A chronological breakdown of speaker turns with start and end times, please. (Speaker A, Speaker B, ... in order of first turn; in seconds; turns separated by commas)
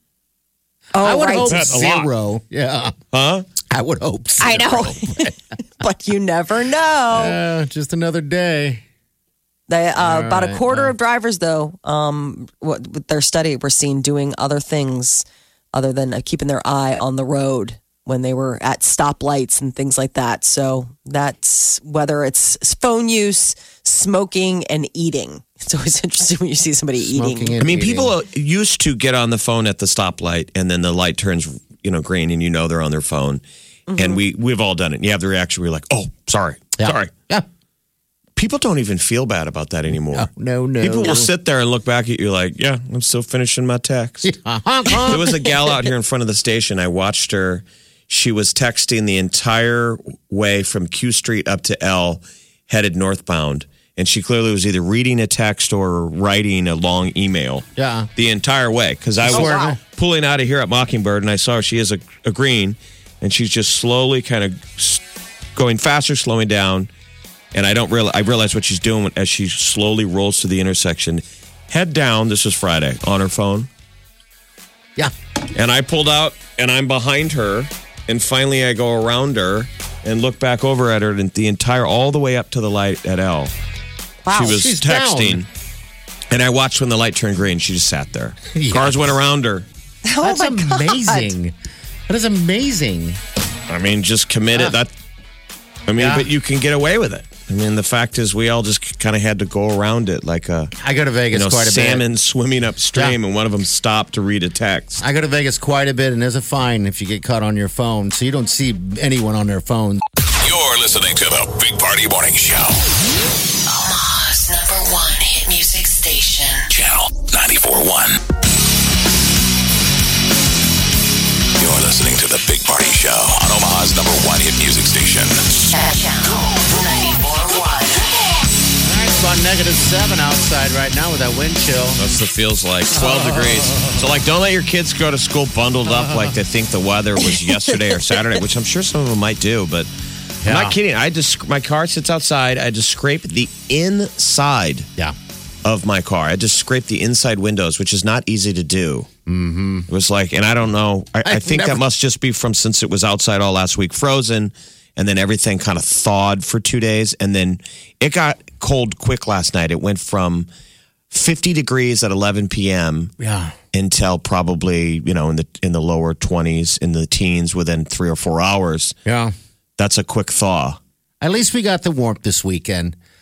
Speaker A: 0.9-1.6, Speaker B: 1.0-3.0, Speaker C: 1.4-2.1, Speaker C: 3.1-3.5, Speaker B: 3.7-5.3, Speaker A: 4.4-7.4, Speaker B: 7.1-8.8, Speaker A: 9.7-27.5, Speaker B: 10.0-10.9, Speaker B: 27.0-28.1, Speaker C: 27.6-33.4, Speaker A: 33.9-34.2, Speaker C: 34.0-37.1, Speaker B: 36.8-37.5, Speaker C: 38.4-40.3, Speaker B: 40.1-41.3, Speaker C: 40.8-44.3, Speaker B: 44.2-45.5, Speaker C: 45.0-65.0, Speaker B: 57.8-58.1, Speaker B: 59.2-59.8, Speaker A: 59.3-59.8, Speaker C: 65.5-66.9, Speaker C: 67.5-73.7, Speaker C: 75.5-83.5, Speaker A: 84.2-84.6, Speaker B: 84.3-85.4, Speaker C: 84.3-85.5, Speaker C: 86.3-89.7, Speaker B: 88.5-89.1, Speaker A: 90.0-91.3, Speaker B: 90.2-91.5, Speaker B: 92.1-93.2, Speaker C: 93.7-94.9, Speaker C: 95.9-100.7, Speaker B: 96.0-96.3, Speaker B: 100.8-102.0, Speaker C: 101.3-105.0, Speaker B: 105.0-110.0, Speaker D: 110.3-112.8, Speaker E: 113.7-116.7, Speaker D: 116.7-118.2, Speaker D: 121.6-125.6, Speaker E: 125.7-128.1, Speaker B: 128.8-132.0, Speaker C: 132.0-139.9, Speaker B: 132.9-134.0, Speaker B: 136.0-136.3, Speaker B: 140.4-140.8, Speaker C: 140.4-144.9, Speaker C: 145.6-149.1, Speaker B: 149.3-149.9, Speaker C: 149.9-160.5, Speaker B: 151.2-151.8, Speaker C: 161.1-163.1, Speaker B: 163.2-163.6, Speaker C: 163.7-168.9, Speaker B: 169.1-169.3, Speaker C: 169.8-170.8, Speaker B: 171.2-173.0